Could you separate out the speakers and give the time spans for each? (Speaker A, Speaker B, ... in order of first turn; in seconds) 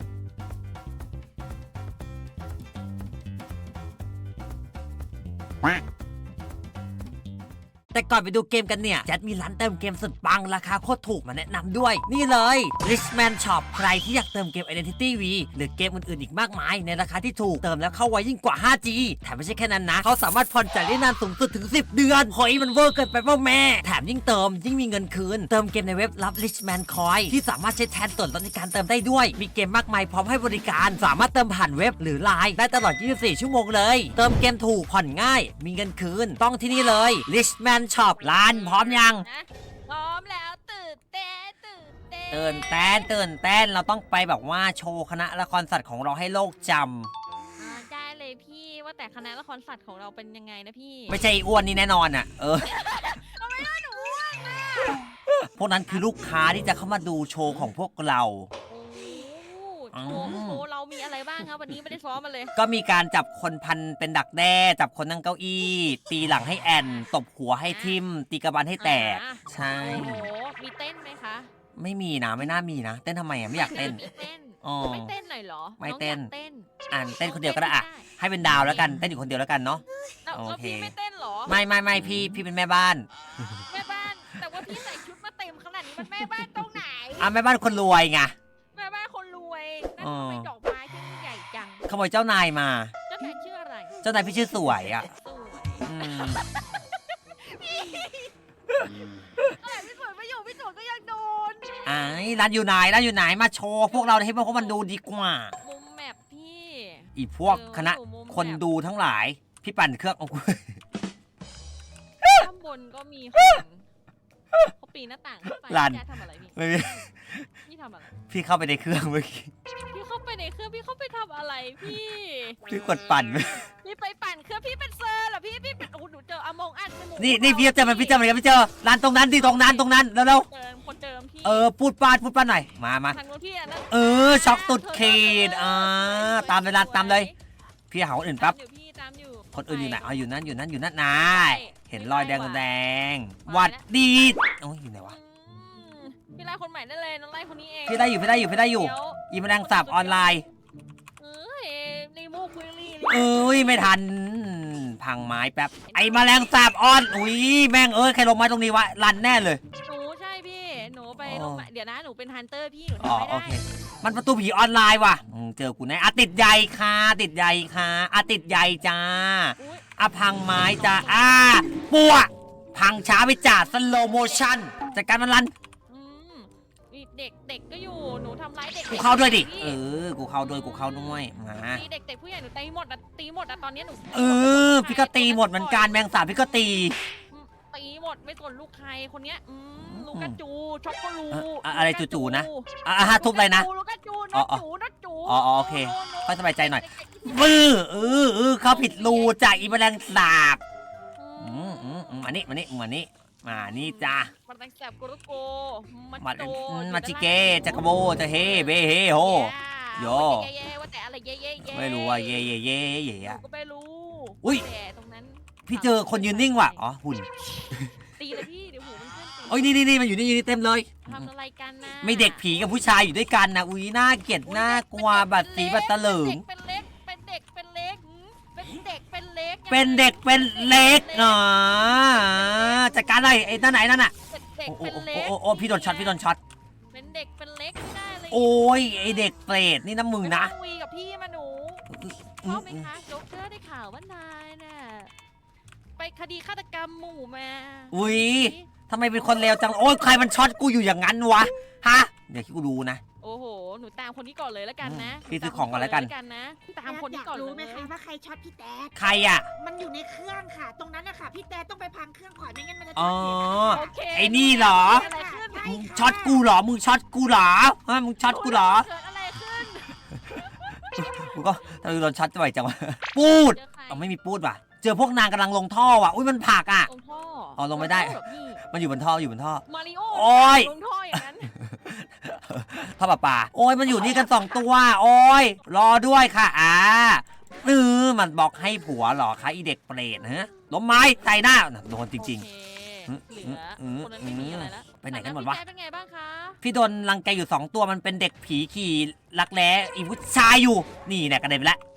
Speaker A: 7.9-39.2, 42.3-47.1, 51.1-53.0, 55.4-58.5, 59.9-60.6, 62.5-70.3, 71.8-74.0, 74.6-75.1, 75.8-76.3, 76.9-80.9, 81.5-83.5, 87.2-88.3, 90.0-90.5, 91.9-92.9, 94.0-95.1, 95.8-96.4, 101.8-105.5, 107.2-110.8, 112.2-112.5, 113.3-113.6, 115.5-116.0, 116.5-117.5, 118.2-119.5, 122.7-123.6, 127.2-130.5, 131.4-133.2, 133.9-137.3, 137.9-138.6, 139.5-145.2, 147.9-150.4, 153.1-159.6, 161.2-161.7, 163.0-175.5, 178.9-181.8, 184.1-187.0, 189.8-190.4, 191.3-193.7, 194.3-194.6, 195.2-200.6, 201.4-204.3, 206.2-210.5, 211.6-213.4, 215.7-217.9, 219.5-221.2, 222.0-226.4, 229.7-234.1, 234.7-236.4, 238.3-240.5, 241.9-242.9, 247.9-253.0, 254.8-256.1, 258.9-259.5, 262.9-265.1, 265.6-268.9, 271.0-276.9, 277.6-280.7, 281.5-292.4, 293.1-295.6, 296.6-301.8
Speaker B: 38.1-43.1, 47.6-51.2, 52.6-55.0, 58.7-62.5, 67.7-68.0, 68.8-71.5, 73.5-78.9, 80.2-81.6, 83.7-87.3, 88.7-91.8, 93.1-94.0, 95.0-98.3, 99.5-102.4, 103.9-104.8, 105.6-108.7, 112.3-113.8, 114.7-117.1, 117.6-118.1, 119.9-122.7, 123.3-128.3, 129.2-131.7, 133.1-137.3, 138.3-140.3, 141.1-142.7, 143.4-144.3, 145.1-150.5, 151.2-153.9, 155.8-156.6, 159.8-163.6, 169.6-169.9, 170.5-171.6, 175.9-179.8, 180.4-186.3, 187.3-199.7, 201.2-202.3, 203.5-212.5, 213.2-216.8, 218.2-219.8, 221.0-222.6, 224.4-233.3, 234.2-236.2, 236.9-239.3, 240.2-245.1, 246.0-248.7, 253.2-257.9, 263.6-265.8, 268.2-271.4, 273.2-274.0, 276.9-278.6, 279.7-281.5, 284.0-284.3, 292.2-296.6
Speaker C: 256.9-259.0, 259.5-263.8, 264.6-266.4